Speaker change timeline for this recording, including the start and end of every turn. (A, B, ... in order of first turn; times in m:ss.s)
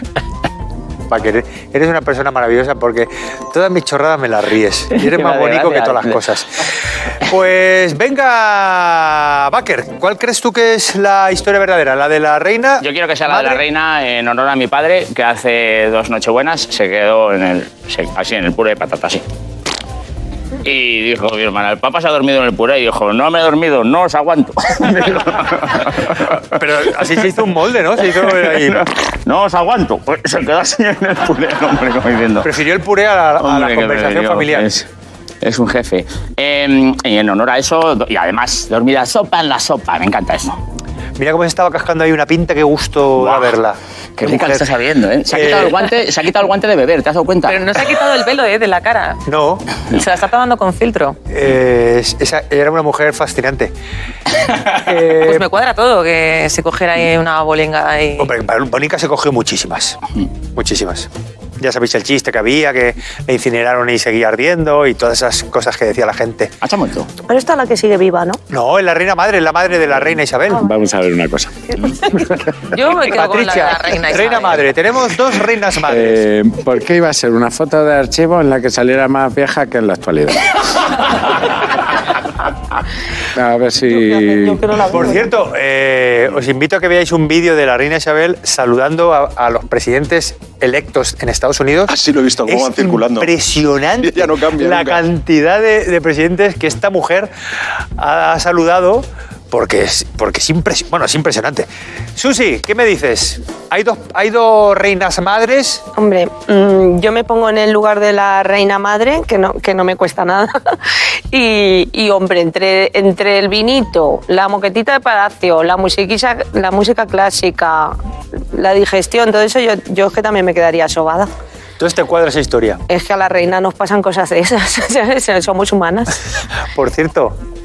0:01.1-0:13.6 A
0:05.0-0:06.2 B
0:12.8-0:19.2 B
0:20.6-0:26.4 B
0:26.5-0:28.8 A
0:28.2-0:32.5 B
0:32.4-0:34.7 A
0:33.4-0:34.9 B
0:35.4-0:40.6 B
0:41.2-0:44.7 A
0:43.2-0:43.6 B
0:44.2-0:47.6 B
0:45.3-0:45.8 A
0:47.5-0:49.2 C
0:49.3-0:49.7 A
0:49.9-0:51.2 C
0:51.3-0:53.7 A
0:54.8-0:55.4 A
0:55.1-0:58.3 C
0:58.2-1:00.0 A
1:00.6-1:01.1 A
1:01.6-1:06.5 A
1:06.6-1:07.1 B
1:07.3-1:08.4 D
1:08.5-1:10.7 A
1:10.5-1:12.4 E
1:12.7-1:14.7 C
1:13.0-1:16.2 A
1:15.9-1:20.6 E
1:23.4-1:24.6 E
1:23.9-1:25.3 D
1:24.9-1:32.0 A
1:31.9-1:33.3 F
1:32.5-1:37.3 A
1:34.0-1:35.0 F
1:38.0-1:45.9 A
1:46.0-1:50.8 D
1:51.3-1:58.0 D
1:58.5-2:01.3 D
2:01.8-2:02.8 A
2:02.9-2:06.2 D
2:06.7-2:07.4 A